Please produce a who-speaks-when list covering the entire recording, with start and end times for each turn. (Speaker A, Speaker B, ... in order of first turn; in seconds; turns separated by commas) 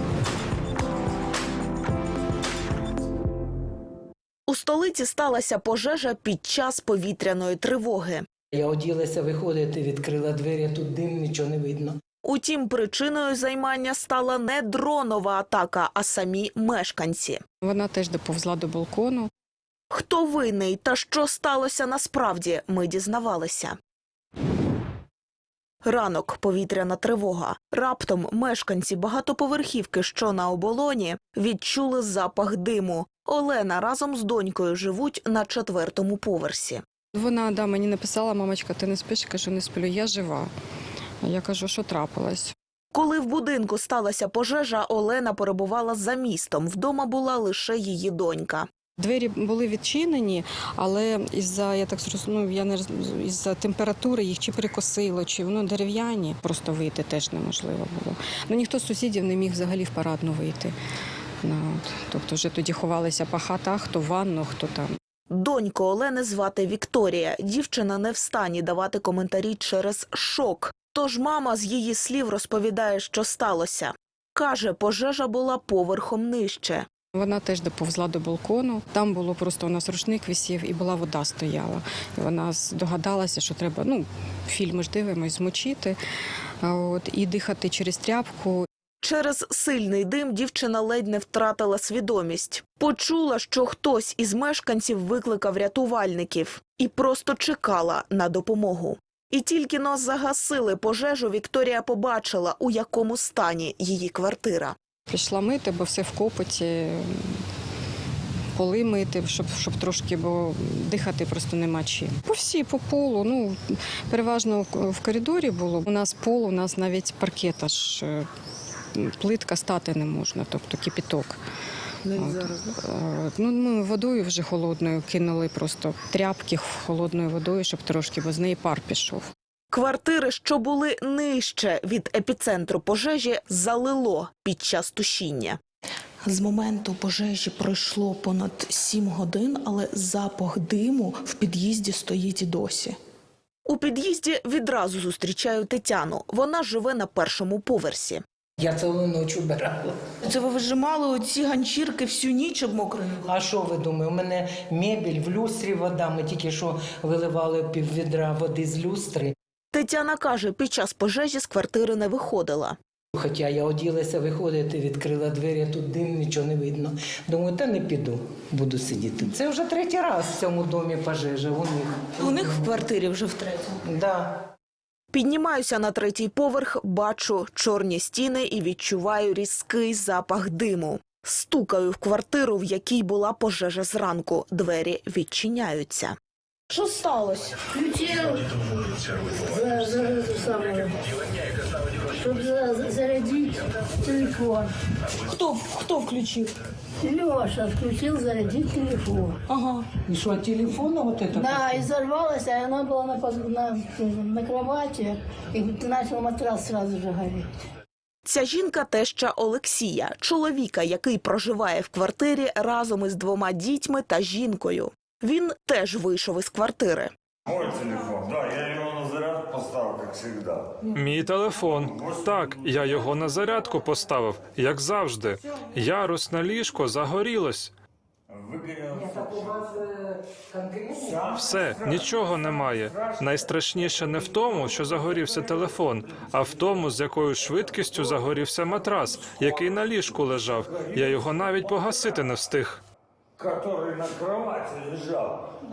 Speaker A: 4.5-8.2, Speaker B: 8.5-12.0, Speaker A: 12.2-17.4, Speaker C: 17.6-19.3, Speaker A: 19.9-23.8, Speaker A: 25.8-36.8, Speaker C: 37.1-40.5, Speaker C: 41.2-42.5, Speaker A: 42.9-48.7, Speaker C: 49.0-60.7, Speaker C: 61.4-64.9, Speaker A: 65.3-76.8, Speaker C: 77.2-86.0, Speaker C: 86.6-88.7, Speaker A: 89.0-104.7, Speaker C: 105.1-107.3, Speaker C: 108.5-118.3, Speaker C: 119.0-121.4, Speaker A: 122.1-122.7, Speaker C: 122.1-129.3, Speaker A: 129.7-135.6, Speaker A: 136.2-142.9, Speaker A: 143.7-148.2, Speaker B: 148.6-150.1, Speaker A: 150.2-153.2, Speaker B: 153.2-159.3, Speaker A: 159.7-162.8, Speaker B: 163.1-172.8, Speaker A: 172.2-173.7, Speaker B: 173.8-174.3, Speaker A: 175.1-186.2, Speaker A: 186.7-187.6, Speaker D: 187.8-188.4, Speaker D: 189.6-190.8, Speaker D: 192.2-193.4, Speaker D: 194.0-194.6, Speaker D: 197.0-199.3, Speaker B: 199.9-201.9, Speaker D: 201.4-207.4, Speaker A: 208.2-217.1, Speaker E: 217.5-220.5, Speaker B: 220.8-221.5, Speaker F: 220.9-227.7, Speaker E: 221.9-222.7, Speaker E: 228.3-229.4, Speaker B: 228.9-231.4, Speaker E: 231.1-232.0, Speaker F: 231.3-242.8, Speaker E: 240.7-241.0, Speaker E: 243.4-245.3